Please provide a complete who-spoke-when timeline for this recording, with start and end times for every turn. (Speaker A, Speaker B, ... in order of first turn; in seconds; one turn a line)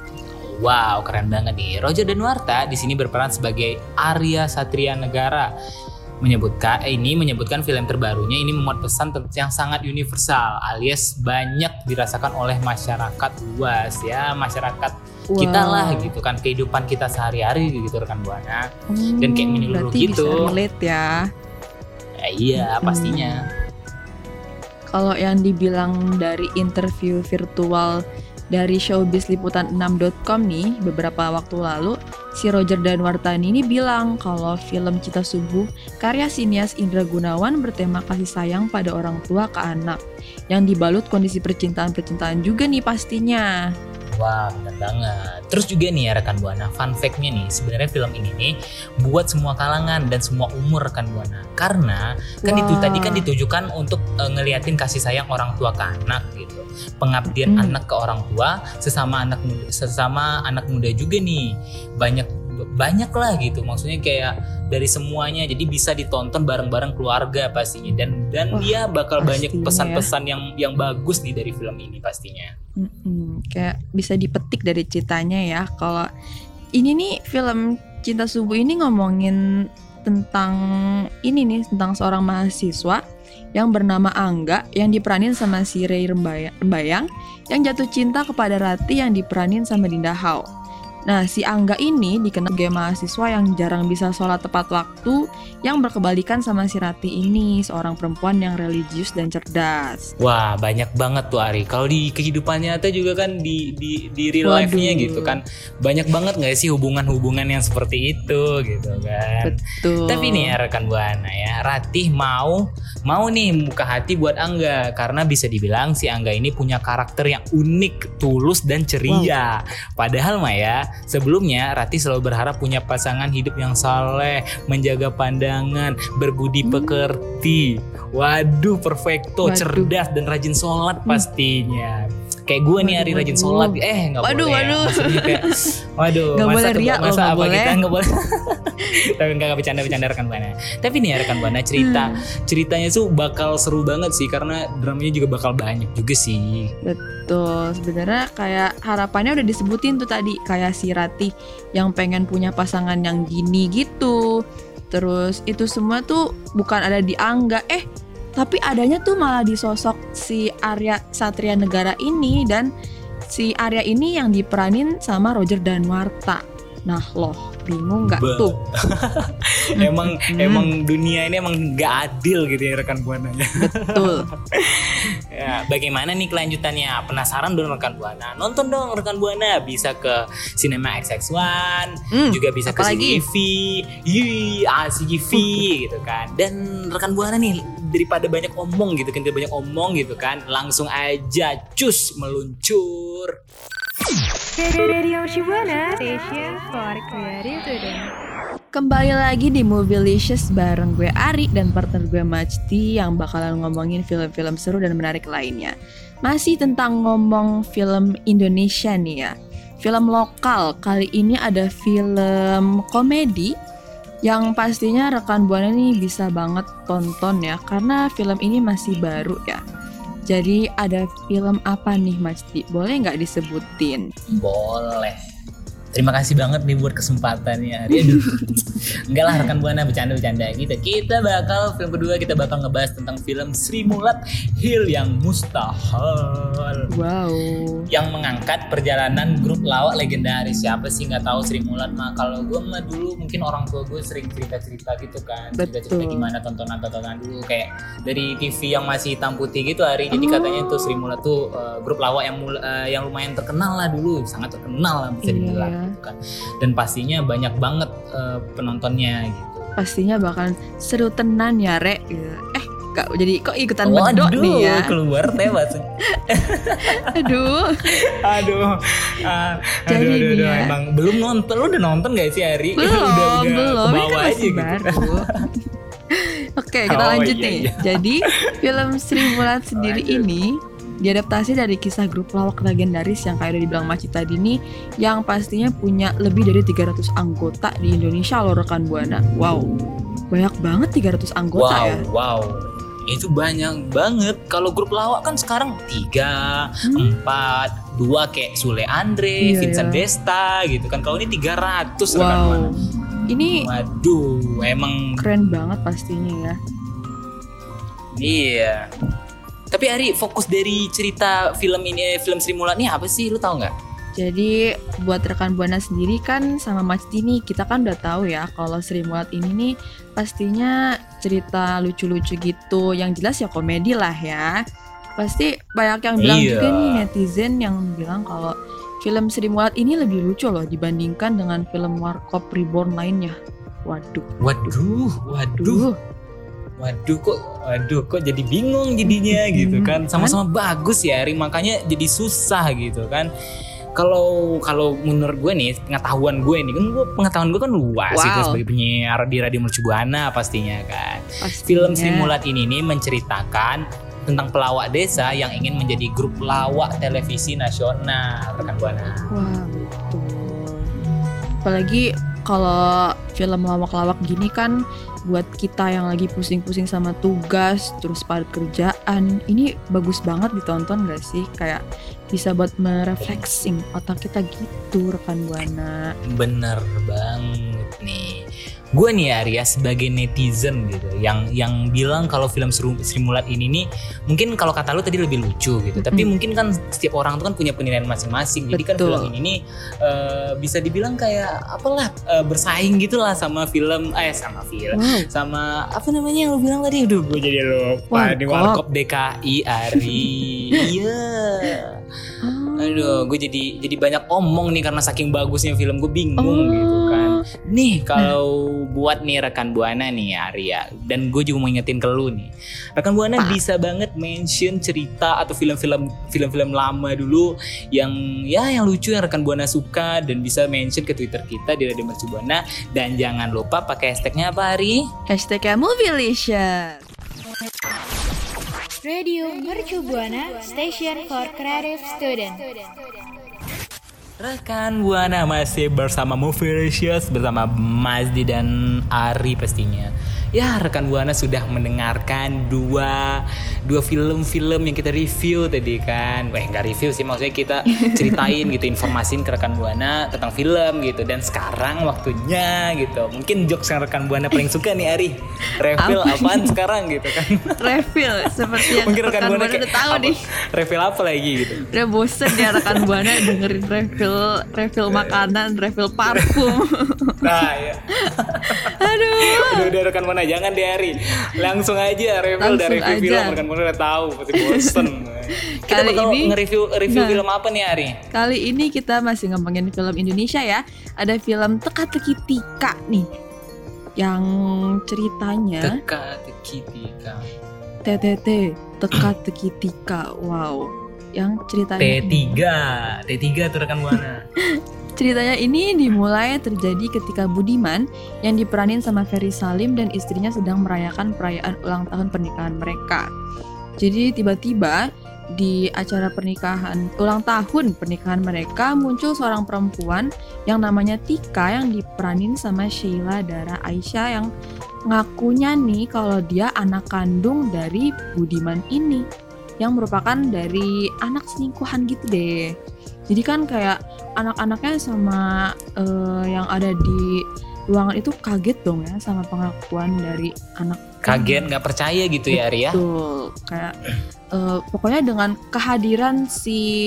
Speaker A: 0.3-5.5
Speaker A: 6.2-18.7
Speaker B: 15.3-16.1
Speaker B: 18.9-21.1
Speaker A: 19.2-20.5
Speaker A: 22.2-23.4
Speaker B: 22.6-23.3
Speaker B: 24.9-28.0
Speaker B: 28.5-40.0
Speaker B: 40.5-43.5
Speaker A: 44.1-72.5
Speaker B: 52.4-53.2
Speaker B: 57.3-57.8
Speaker B: 68.5-70.1
Speaker B: 72.8-76.1
Speaker B: 76.8-79.4
Speaker B: 80.0-80.6
Speaker B: 81.2-83.0
Speaker B: 83.5-90.4
Speaker B: 91.1-100.1
Speaker A: 100.2-109.5
Speaker B: 104.4-105.4
Speaker B: 109.4-110.5
Speaker A: 110.0-146.7
Speaker B: 119.1-119.3
Speaker B: 126.6-127.0
Speaker B: 129.4-129.9
Speaker B: 132.8-135.6
Speaker B: 136.3-137.8
Speaker B: 141.3-142.1
Speaker B: 146.8-154.2
Speaker B: 154.9-157.8
Speaker B: 158.4-162.7
Speaker B: 163.3-168.6
Speaker A: 168.1-174.2
Speaker B: 169.8-170.7
Speaker B: 173.6-174.3
Speaker A: 174.7-193.3
Speaker B: 182.1-183.2
Speaker B: 185.3-185.7
Speaker C: 194.6-198.1
Speaker B: 198.7-205.7
Speaker B: 206.2-209.3
Speaker B: 209.8-213.5
Speaker B: 214.3-219.6
Speaker B: 220.3-224.0
Speaker A: 224.3-225.2
Speaker A: 225.9-236.8
Speaker B: 236.9-237.9
Speaker A: 237.9-259.7
Speaker B: 245.5-246.3
Speaker B: 250.1-251.0
Speaker B: 255.2-255.9
Speaker B: 259.8-265.5
Speaker A: 263.8-267.1
Speaker B: 266.9-267.9
Speaker A: 267.9-275.0
Speaker B: 269.9-270.8
Speaker B: 272.8-275.3
Speaker B: 276.1-280.5
Speaker A: 276.9-278.5
Speaker A: 279.1-280.3
Speaker B: 281.0-289.7
Speaker B: 290.3-292.0
Speaker A: 291.6-292.6
Speaker A: 293.1-302.7
Speaker B: 296.9-297.2
Speaker B: 299.4-300.0
Speaker B: 302.1-302.8
Speaker B: 303.3-303.6
Speaker A: 303.6-305.2
Speaker B: 305.2-306.6
Speaker A: 308.1-308.9
Speaker A: 309.7-313.7
Speaker B: 314.1-324.5
Speaker B: 325.2-333.4
Speaker A: 326.2-327.1
Speaker B: 333.9-334.2
Speaker A: 334.4-335.9
Speaker B: 335.6-336.0
Speaker A: 336.8-343.3
Speaker B: 339.1-340.4
Speaker A: 344.0-359.3
Speaker B: 348.1-348.6
Speaker B: 351.4-352.3
Speaker B: 359.3-360.9
Speaker B: 361.6-364.8
Speaker B: 365.3-376.1
Speaker A: 373.2-373.5
Speaker A: 376.3-378.4
Speaker A: 378.9-401.9
Speaker B: 386.0-386.3
Speaker B: 388.7-389.3
Speaker B: 394.9-395.3
Speaker B: 398.1-398.8
Speaker B: 399.9-400.2
Speaker B: 402.4-403.2
Speaker A: 402.8-425.0
Speaker B: 406.4-407.4
Speaker B: 425.3-427.0
Speaker C: 429.0-432.9
Speaker A: 434.4-458.0
Speaker B: 447.9-448.7
Speaker B: 456.0-456.8
Speaker B: 457.8-460.4
Speaker A: 458.9-461.8
Speaker B: 461.9-467.4
Speaker A: 462.5-463.8
Speaker A: 465.1-465.4
Speaker A: 466.3-466.7
Speaker A: 467.4-478.1
Speaker B: 468.6-469.9
Speaker B: 472.6-473.6
Speaker B: 474.6-475.1
Speaker B: 475.9-476.6
Speaker B: 477.1-477.4
Speaker B: 478.3-483.3
Speaker B: 484.2-486.0
Speaker A: 485.8-487.5
Speaker B: 488.1-492.6
Speaker A: 492.0-494.5
Speaker B: 495.2-503.2
Speaker B: 504.0-505.0
Speaker B: 505.6-514.5
Speaker B: 515.1-519.2
Speaker B: 519.8-522.6
Speaker B: 523.3-525.4
Speaker B: 526.0-527.2
Speaker B: 527.9-531.7
Speaker A: 531.2-533.0
Speaker B: 532.5-533.9
Speaker B: 534.6-536.9